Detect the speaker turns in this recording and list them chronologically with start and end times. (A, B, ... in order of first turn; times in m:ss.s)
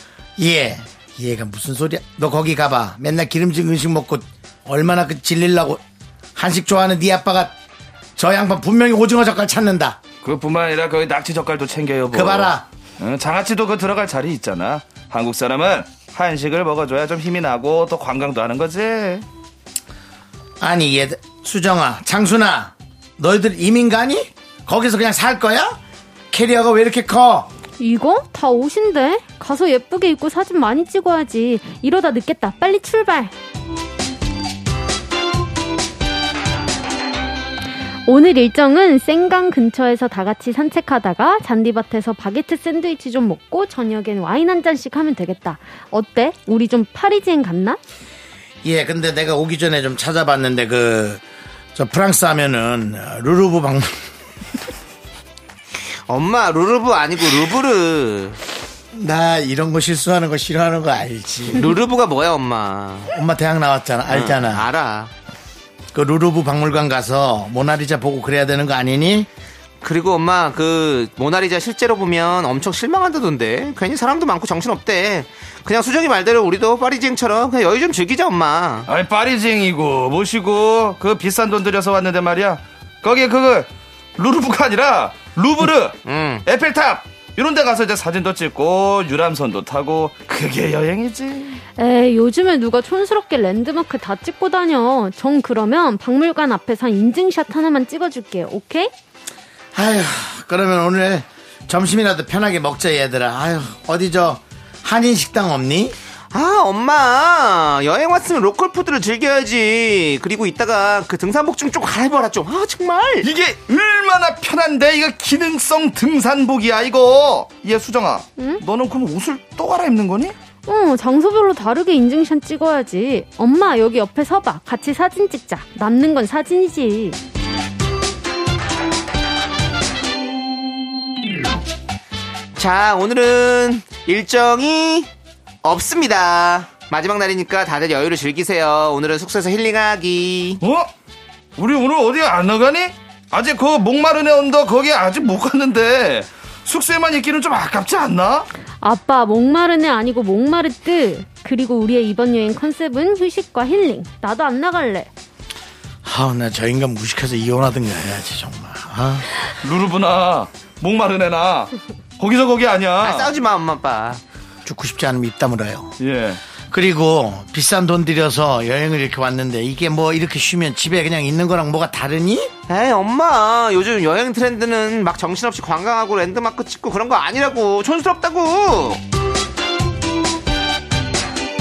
0:00.4-0:05.8 A
0:06.4-0:07.6 A
0:08.2-0:10.0 A
0:10.2-0:19.2 B
0:12.1-0:12.7 A
0:20.6-0:25.8 A
0:26.3-0:27.5 A
0:27.8-0:33.3 C
0:38.1-0:47.8 C
0:48.6-0:51.2 A
0:51.8-0:54.1 A
0:56.1-0:58.4 D
0:58.9-1:01.7 A
1:01.5-1:03.1 D
1:03.1-1:04.7 A
1:04.1-1:05.1 D
1:05.9-1:09.3 A
1:09.8-1:18.9 D
1:18.9-1:31.6 B
1:26.0-1:26.4 D
1:31.8-1:38.9 C
1:39.7-1:46.0 A
1:46.3-1:53.3 D
1:53.2-2:00.4 B
1:58.4-1:58.6 C
2:00.7-2:07.2 C
2:12.6-2:15.1 D
2:15.6-2:20.6 D
2:20.6-2:20.9 B
2:21.6-2:28.5 B
2:28.8-2:35.1 C
2:36.0-2:39.3 A
2:39.6-2:43.3 B
2:43.0-2:44.2 D
2:44.6-2:46.0 A
2:46.0-2:46.4 B
2:46.7-2:52.5 A
2:52.7-2:59.0 D